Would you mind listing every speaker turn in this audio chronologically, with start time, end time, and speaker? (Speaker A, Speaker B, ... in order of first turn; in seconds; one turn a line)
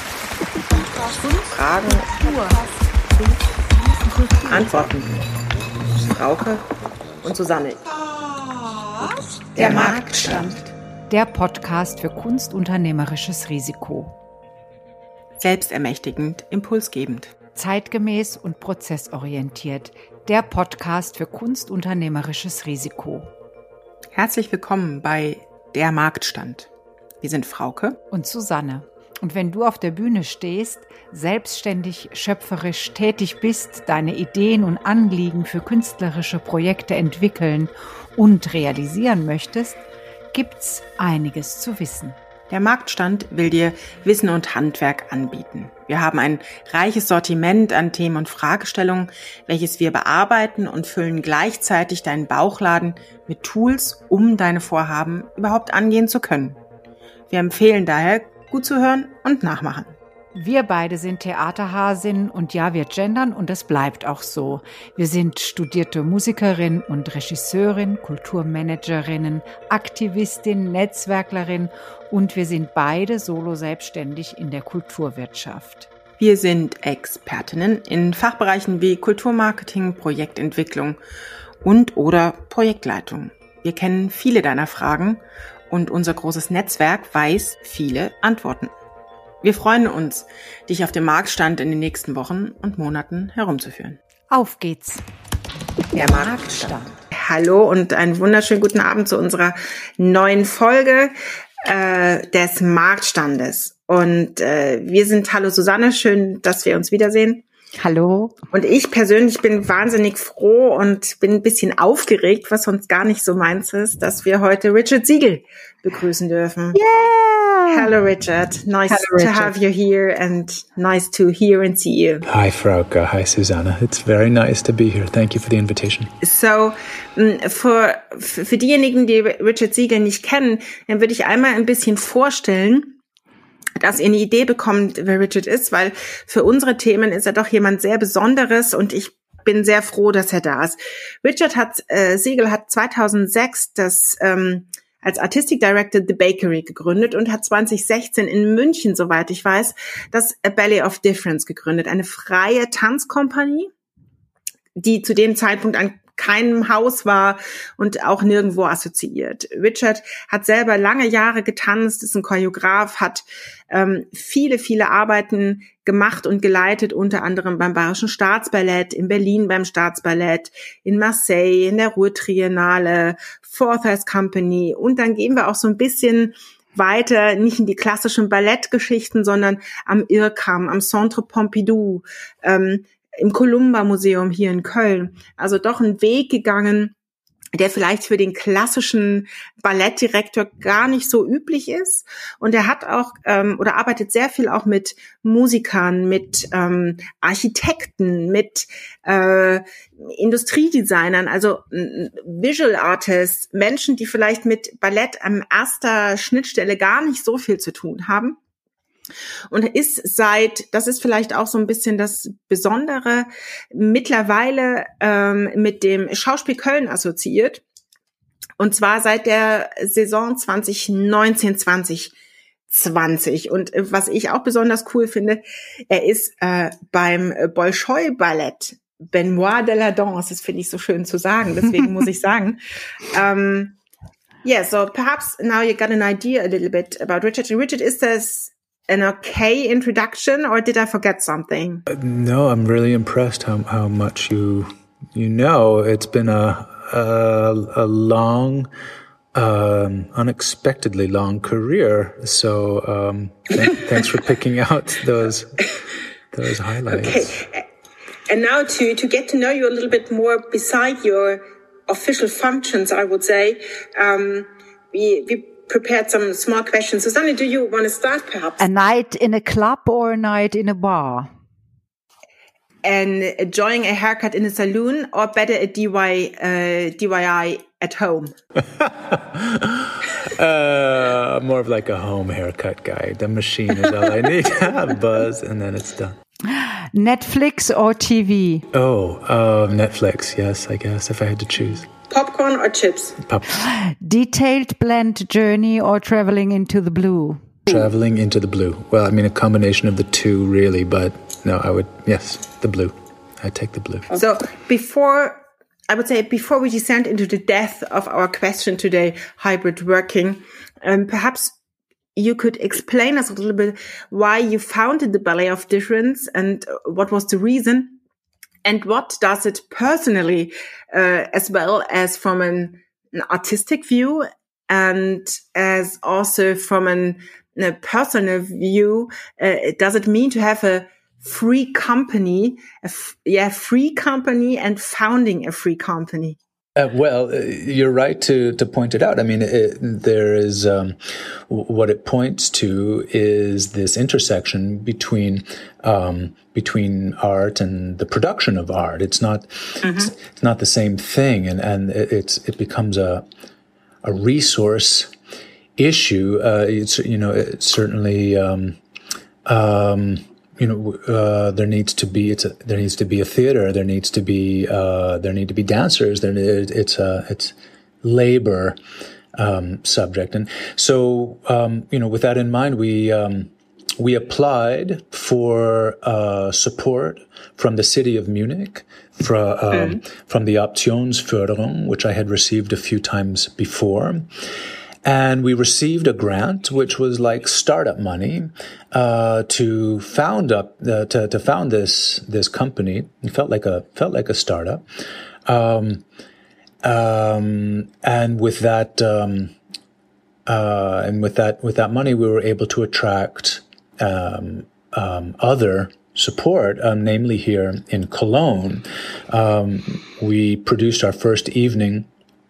Speaker A: 0.8-2.7
Speaker B: 1.4-2.6
Speaker A: 3.8-4.9
Speaker B: 4.5-5.2
Speaker B: 6.0-6.7
Speaker B: 7.2-7.9
Speaker A: 8.1-14.1
Speaker B: 9.6-10.5
Speaker B: 15.4-17.3
Speaker A: 17.6-23.3
Speaker B: 24.2-26.7
Speaker B: 27.2-28.0
Speaker A: 28.1-39.8
Speaker A: 40.3-42.2
Speaker B: 42.5-56.6
Speaker B: 57.3-60.0
Speaker A: 60.3-75.9
Speaker B: 76.2-81.0
Speaker B: 81.6-88.7
Speaker B: 89.4-94.0
Speaker A: 94.3-95.0
Speaker A: 95.9-96.9
Speaker B: 95.9-101.1
Speaker B: 101.7-107.4
Speaker A: 107.8-108.4
Speaker B: 108.5-116.8
Speaker A: 116.7-117.9
Speaker B: 117.7-122.3
Speaker A: 118.9-119.5
Speaker C: 122.3-126.1
Speaker B: 126.2-133.0
Speaker B: 133.8-153.7
Speaker B: 154.8-186.9
Speaker B: 187.6-208.4
Speaker B: 209.5-217.6
Speaker B: 218.6-222.1
Speaker B: 222.7-233.8
Speaker B: 234.4-241.9
Speaker C: 241.9-248.7
Speaker C: 249.3-255.7
Speaker C: 256.3-257.4
Speaker B: 256.9-257.6
Speaker B: 258.3-268.6
Speaker A: 268.6-271.3
Speaker B: 272.8-278.3
Speaker C: 278.6-286.2
Speaker A: 286.5-288.7
Speaker C: 288.7-291.9
Speaker B: 292.1-293.2
Speaker C: 293.2-293.6
Speaker A: 293.6-297.6
Speaker C: 297.7-304.1
Speaker B: 304.1-311.5
Speaker B: 312.2-318.0
Speaker B: 318.6-336.4
Speaker C: 336.8-353.2
Speaker B: 349.8-350.1
Speaker C: 354.0-355.1
Speaker C: 355.8-358.8
Speaker C: 359.5-368.8
Speaker C: 369.4-384.3
Speaker B: 379.7-380.0
Speaker C: 385.0-394.8
Speaker C: 395.5-396.0
Speaker C: 396.8-399.6
Speaker C: 400.5-412.1